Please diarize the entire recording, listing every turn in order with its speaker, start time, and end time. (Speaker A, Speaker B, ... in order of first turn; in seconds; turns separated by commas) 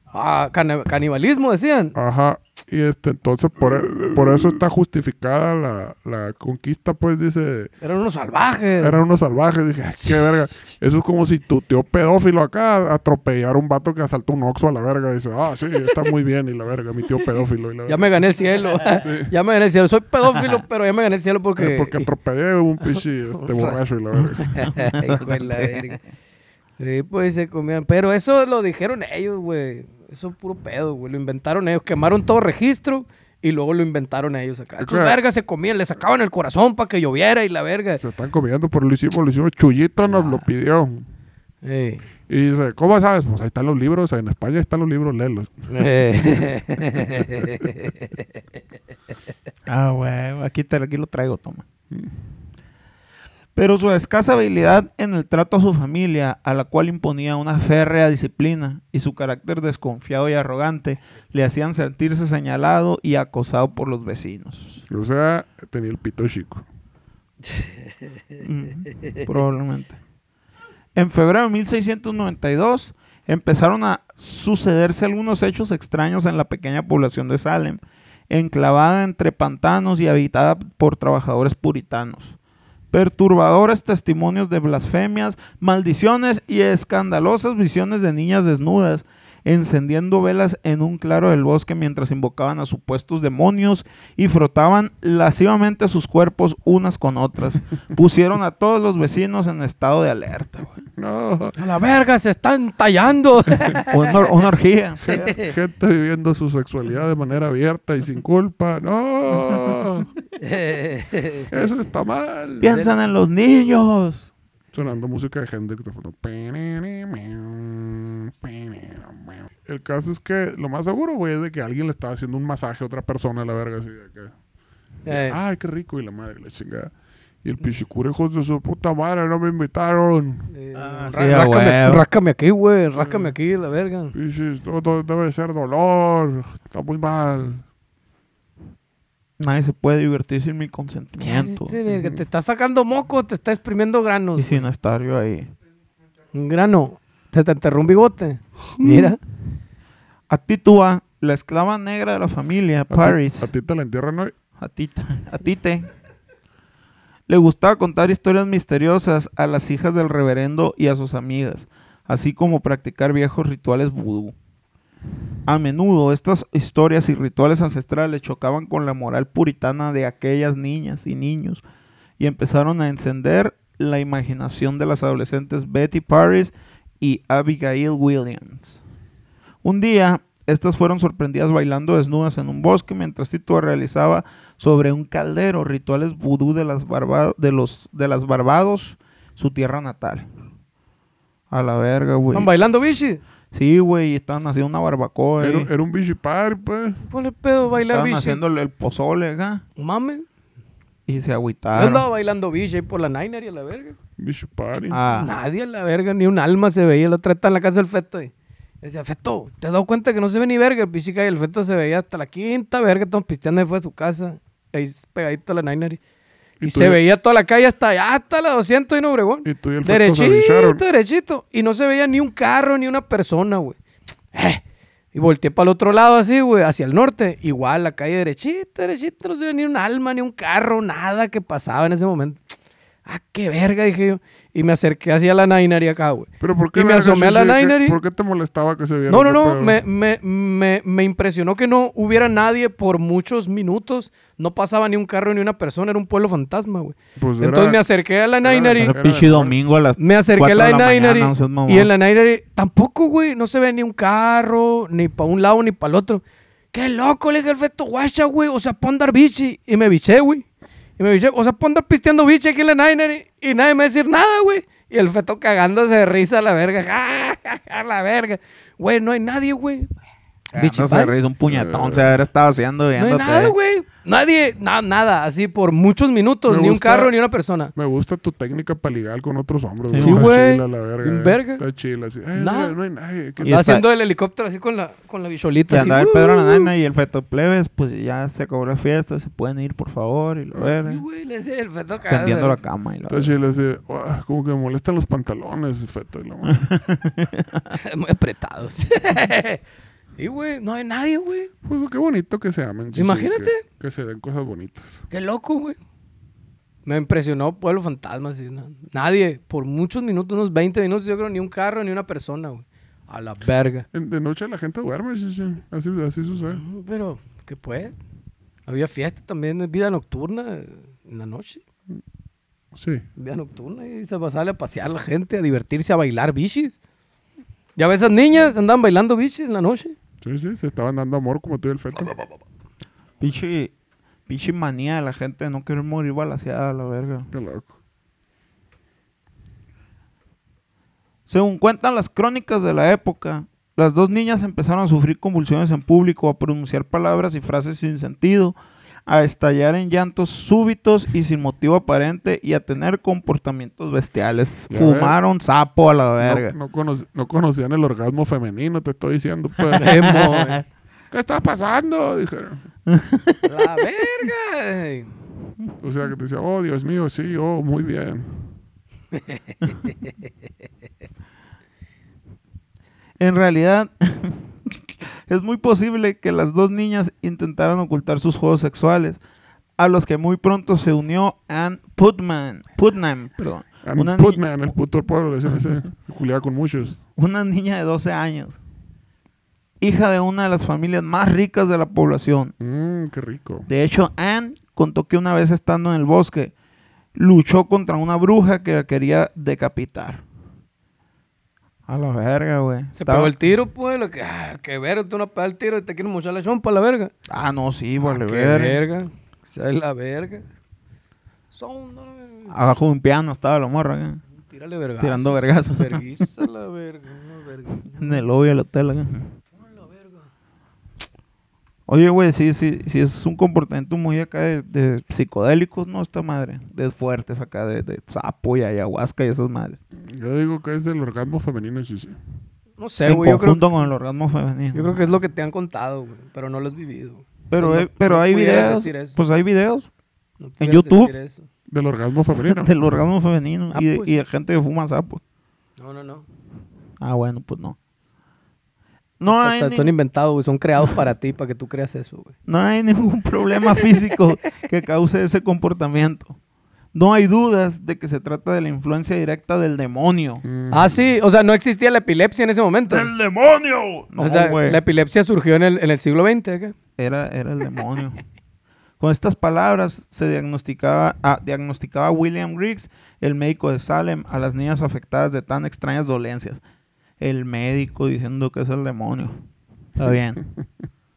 Speaker A: 0.1-1.9, Speaker B: 2.0-7.7, Speaker A: 7.8-9.0, Speaker B: 8.8-18.1, Speaker A: 17.9-22.1, Speaker B: 19.0-19.3, Speaker C: 20.3-20.6, Speaker B: 21.6-24.6, Speaker A: 23.4-23.8, Speaker A: 24.5-26.0, Speaker C: 24.7-26.0, Speaker A: 26.8-38.0, Speaker B: 34.8-35.2, Speaker B: 38.0-41.0, Speaker A: 41.6-42.0, Speaker B: 42.3-45.7, Speaker A: 45.7-47.8, Speaker C: 49.7-51.6, Speaker C: 53.5-64.8, Speaker B: 64.9-66.7, Speaker C: 68.4-70.0, Speaker C: 71.0-82.4, Speaker C: 82.9-100.8, Speaker B: 101.0-101.6, Speaker A: 101.6-104.2, Speaker C: 103.9-105.3, Speaker B: 105.0-110.1, Speaker A: 110.4-111.5, Speaker B: 111.5-112.8, Speaker C: 112.6-114.3, Speaker B: 114.7-124.3, Speaker A: 125.1-125.4, Speaker B: 125.1-130.5, Speaker A: 130.5-134.1, Speaker C: 130.8-132.1, Speaker B: 133.0-133.3, Speaker B: 134.1-137.6, Speaker C: 139.4-141.8, Speaker A: 141.2-144.6, Speaker C: 144.4-145.5, Speaker A: 146.3-149.2, Speaker C: 148.8-149.2, Speaker C: 150.3-153.5, Speaker B: 152.9-154.3, Speaker C: 154.6-155.9, Speaker C: 157.3-164.3, Speaker C: 165.5-171.6, Speaker C: 172.2-178.8, Speaker C: 179.6-190.3, Speaker C: 191.5-192.5, Speaker A: 192.3-193.2, Speaker C: 193.5-195.7, Speaker B: 195.4-197.1, Speaker A: 197.1-198.4, Speaker C: 197.9-199.6, Speaker A: 199.8-200.3, Speaker C: 201.1-202.1, Speaker A: 201.7-204.0, Speaker B: 204.2-205.0, Speaker C: 204.9-205.3, Speaker A: 205.1-216.0, Speaker B: 216.6-217.0, Speaker A: 216.6-223.8, Speaker B: 219.4-220.8, Speaker A: 224.3-224.6, Speaker A: 225.1-232.5, Speaker A: 233.1-238.0, Speaker B: 236.4-239.8, Speaker A: 239.1-248.9, Speaker B: 247.2-247.8, Speaker B: 248.4-249.6, Speaker C: 248.8-251.9, Speaker A: 250.0-260.5, Speaker A: 261.0-269.9, Speaker C: 270.5-273.6, Speaker A: 270.6-271.1, Speaker B: 271.5-272.2, Speaker A: 273.0-277.7, Speaker B: 276.5-277.1, Speaker B: 277.8-283.6, Speaker C: 279.9-280.3, Speaker A: 280.0-281.6, Speaker A: 282.4-282.7, Speaker A: 283.4-286.7, Speaker C: 283.4-283.8, Speaker C: 285.7-291.0, Speaker A: 290.8-292.6, Speaker C: 292.1-293.3, Speaker B: 293.1-296.7, Speaker C: 296.5-297.7, Speaker A: 297.7-299.6, Speaker A: 300.2-301.5, Speaker B: 301.6-305.0, Speaker A: 302.9-303.6, Speaker A: 305.1-305.8, Speaker A: 306.9-313.9, Speaker B: 313.9-316.6, Speaker A: 316.6-318.0, Speaker A: 318.7-321.6, Speaker B: 322.7-323.1, Speaker A: 323.2-326.8, Speaker A: 327.8-329.9, Speaker B: 330.2-332.2, Speaker C: 333.2-333.7, Speaker C: 334.3-337.3, Speaker B: 337.3-337.7, Speaker C: 341.3-348.6, Speaker C: 349.1-356.5, Speaker B: 354.7-355.2, Speaker B: 356.2-360.3, Speaker A: 359.7-360.6, Speaker C: 359.8-360.6, Speaker B: 361.1-362.7, Speaker C: 362.9-363.7, Speaker A: 363.5-365.1, Speaker B: 365.8-368.5, Speaker C: 373.2-379.2, Speaker C: 379.8-384.4, Speaker B: 383.8-387.0, Speaker C: 387.2-388.6, Speaker C: 389.8-392.5, Speaker B: 392.6-393.7, Speaker C: 393.7-396.5, Speaker C: 397.1-400.2, Speaker C: 401.9-403.3, Speaker A: 403.0-407.1, Speaker C: 407.3-408.8, Speaker A: 408.1-410.4, Speaker A: 411.5-412.5, Speaker C: 412.5-414.2, Speaker A: 414.4-418.2, Speaker C: 415.0-416.3, Speaker C: 417.9-419.3, Speaker A: 419.6-420.2, Speaker C: 421.9-429.8, Speaker B: 430.0-432.2, Speaker A: 432.8-433.6, Speaker C: 433.1-435.0, Speaker A: 434.7-439.1, Speaker C: 437.5-439.9, Speaker A: 440.4-441.4, Speaker C: 440.6-441.1, Speaker B: 441.7-442.7, Speaker C: 442.4-445.2, Speaker A: 443.7-444.1, Speaker A: 445.8-446.2, Speaker C: 447.0-447.8, Speaker C: 449.2-449.9, Speaker A: 449.3-452.3, Speaker C: 452.5-456.4, Speaker C: 456.9-460.4, Speaker B: 460.4-461.0, Speaker A: 460.7-463.1, Speaker C: 462.9-464.8, Speaker A: 464.2-466.8, Speaker C: 467.0-468.2, Speaker C: 469.0-476.6, Speaker C: 477.2-479.4, Speaker C: 480.0-480.4